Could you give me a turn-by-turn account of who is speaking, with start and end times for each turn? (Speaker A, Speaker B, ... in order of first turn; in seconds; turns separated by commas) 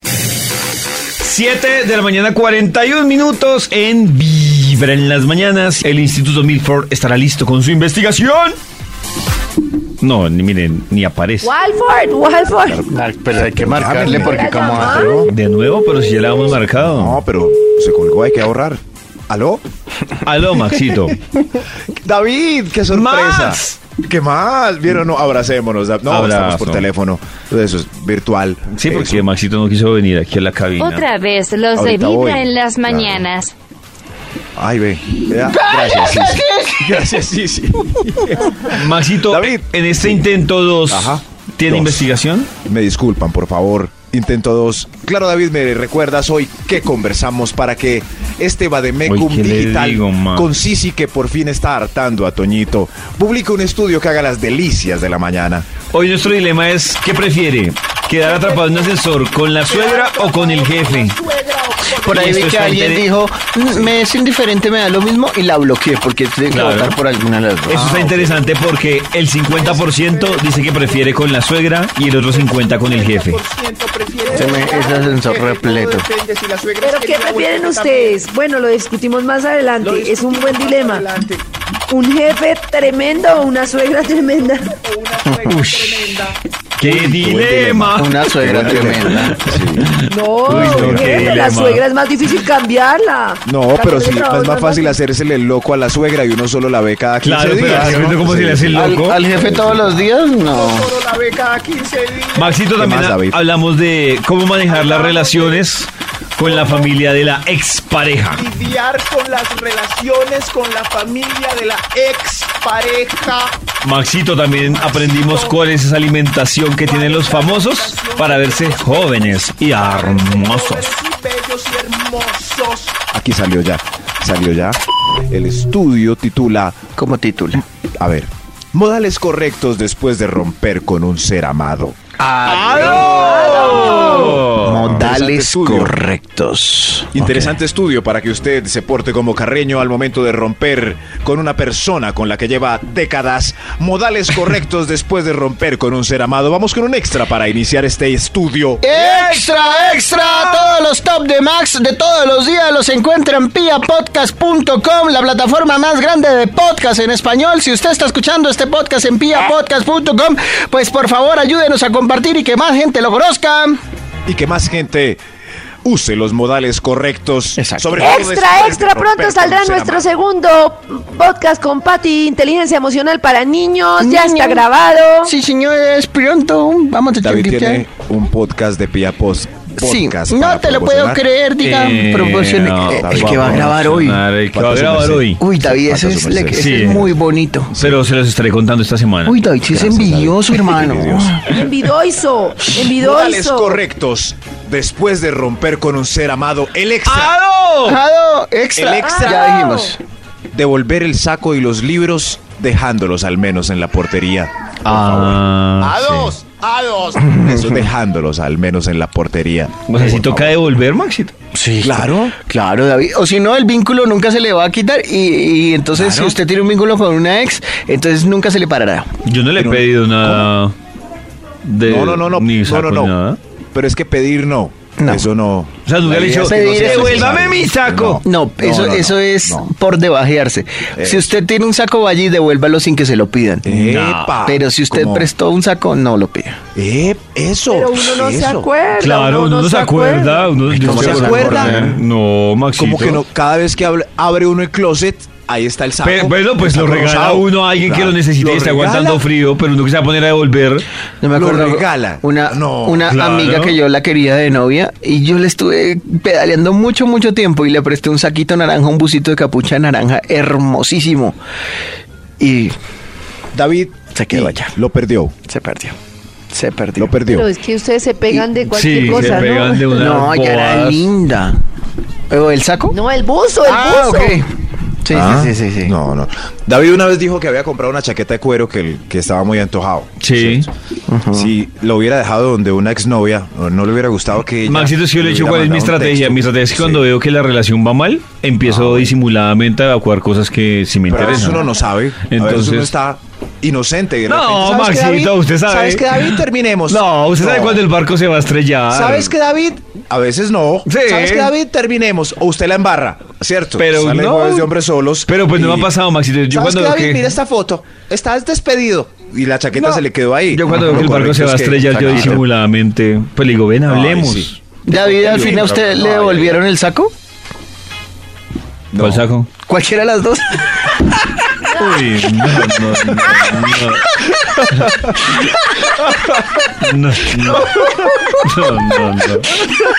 Speaker A: 1.2-8.6, Speaker A: 10.0-11.5, Speaker B: 11.4-12.9, Speaker C: 12.9-15.3, Speaker D: 13.3-15.3, Speaker B: 14.0-15.2, Speaker A: 15.2-17.2, Speaker D: 16.7-19.6, Speaker A: 20.2-21.2, Speaker D: 21.9-29.3, Speaker A: 22.9-23.8, Speaker A: 26.1-26.9, Speaker A: 28.7-31.1, Speaker E: 30.8-33.5, Speaker D: 31.7-33.3, Speaker D: 34.5-40.4, Speaker C: 35.4-36.8, Speaker A: 38.7-42.5, Speaker D: 40.9-42.1, Speaker D: 42.6-55.7, Speaker A: 49.0-50.5, Speaker A: 55.9-61.2, Speaker D: 59.7-62.1, Speaker F: 61.5-61.9, Speaker C: 61.9-68.0, Speaker A: 62.1-63.1, Speaker A: 63.6-64.0, Speaker A: 66.5-67.0, Speaker A: 67.7-73.4, Speaker D: 67.7-68.5, Speaker D: 69.5-71.0, Speaker D: 72.3-77.9, Speaker F: 73.3-78.2, Speaker B: 74.3-75.0, Speaker C: 74.3-76.0, Speaker B: 76.8-81.1, Speaker D: 79.8-81.3, Speaker B: 81.9-84.8, Speaker D: 84.8-86.2, Speaker F: 85.2-86.2, Speaker C: 85.2-85.6, Speaker A: 85.4-91.8, Speaker D: 86.8-89.9, Speaker C: 88.0-89.4, Speaker B: 90.1-95.0, Speaker D: 90.5-91.3, Speaker D: 93.4-103.4, Speaker A: 97.2-99.2, Speaker C: 98.7-100.9, Speaker A: 102.3-108.4, Speaker D: 104.7-105.6, Speaker D: 106.4-106.9, Speaker D: 108.3-113.6, Speaker A: 113.8-121.0, Speaker D: 114.7-115.6, Speaker D: 116.8-126.8, Speaker C: 127.0-127.6, Speaker D: 128.0-132.0, Speaker C: 132.2-133.5, Speaker A: 132.4-135.0, Speaker B: 133.1-134.4, Speaker C: 134.1-137.5, Speaker D: 134.6-135.9, Speaker D: 137.1-148.9, Speaker C: 148.8-163.8, Speaker A: 148.9-150.8, Speaker D: 164.2-165.2, Speaker D: 165.8-170.2, Speaker C: 167.6-168.0, Speaker B: 168.0-175.3, Speaker C: 174.0-174.6, Speaker C: 175.2-177.8, Speaker D: 177.2-181.2, Speaker C: 179.8-184.2, Speaker A: 181.6-185.4, Speaker D: 182.9-183.9, Speaker D: 184.5-186.7, Speaker C: 185.4-187.7, Speaker A: 186.5-187.1, Speaker D: 187.7-188.0, Speaker A: 187.7-189.4, Speaker C: 189.2-191.4, Speaker D: 189.5-191.3, Speaker B: 191.4-193.8, Speaker D: 192.8-197.3, Speaker A: 197.1-198.0, Speaker C: 197.8-200.0, Speaker D: 198.7-199.6, Speaker B: 199.0-199.9, Speaker D: 200.5-205.4, Speaker A: 204.8-206.0, Speaker F: 205.8-207.2, Speaker C: 206.0-206.3, Speaker D: 207.2-210.6, Speaker A: 209.9-211.3, Speaker C: 211.5-219.1, Speaker D: 211.8-212.4, Speaker D: 215.9-216.4, Speaker A: 219.2-220.7, Speaker D: 219.5-220.5, Speaker A: 221.6-223.4, Speaker D: 221.8-223.1, Speaker D: 223.7-229.7, Speaker C: 225.0-225.3, Speaker A: 225.8-228.2, Speaker C: 226.2-227.6, Speaker C: 228.2-233.6, Speaker D: 230.9-231.3, Speaker D: 233.6-235.3, Speaker A: 233.6-234.4, Speaker C: 234.4-236.6, Speaker D: 236.7-238.7, Speaker B: 237.7-240.6, Speaker A: 238.9-243.2, Speaker C: 240.7-242.0, Speaker D: 240.8-242.0, Speaker D: 242.8-249.3, Speaker A: 246.0-250.8, Speaker C: 251.2-261.4, Speaker D: 251.3-253.0, Speaker A: 253.0-253.8, Speaker C: 262.4-262.7, Speaker D: 263.5-265.4, Speaker C: 264.1-264.7, Speaker C: 265.5-265.9, Speaker C: 266.5-267.1, Speaker D: 266.9-267.5, Speaker B: 267.3-270.0, Speaker C: 268.3-269.3, Speaker A: 268.7-271.1, Speaker C: 269.9-271.6, Speaker C: 272.3-273.0, Speaker B: 272.9-274.4, Speaker C: 273.6-275.9, Speaker D: 275.1-280.7, Speaker A: 280.2-280.6, Speaker C: 281.1-281.5, Speaker D: 281.3-287.1, Speaker A: 284.6-291.7, Speaker D: 288.6-289.1, Speaker D: 291.1-297.8, Speaker A: 292.3-292.9, Speaker A: 294.3-299.3, Speaker D: 298.9-305.9, Speaker A: 300.9-301.5, Speaker A: 303.8-304.7, Speaker A: 305.3-307.2, Speaker D: 306.5-312.4, Speaker C: 309.7-310.0, Speaker A: 310.5-316.6, Speaker C: 310.7-311.1, Speaker C: 311.9-312.4, Speaker D: 313.9-314.5, Speaker C: 314.9-317.1, Speaker D: 315.2-315.7, Speaker D: 318.9-319.2, Speaker A: 319.0-319.5, Speaker C: 319.6-321.7, Speaker A: 321.7-324.1, Speaker A: 324.7-325.2, Speaker D: 326.1-326.7, Speaker A: 326.8-329.7, Speaker D: 327.5-328.2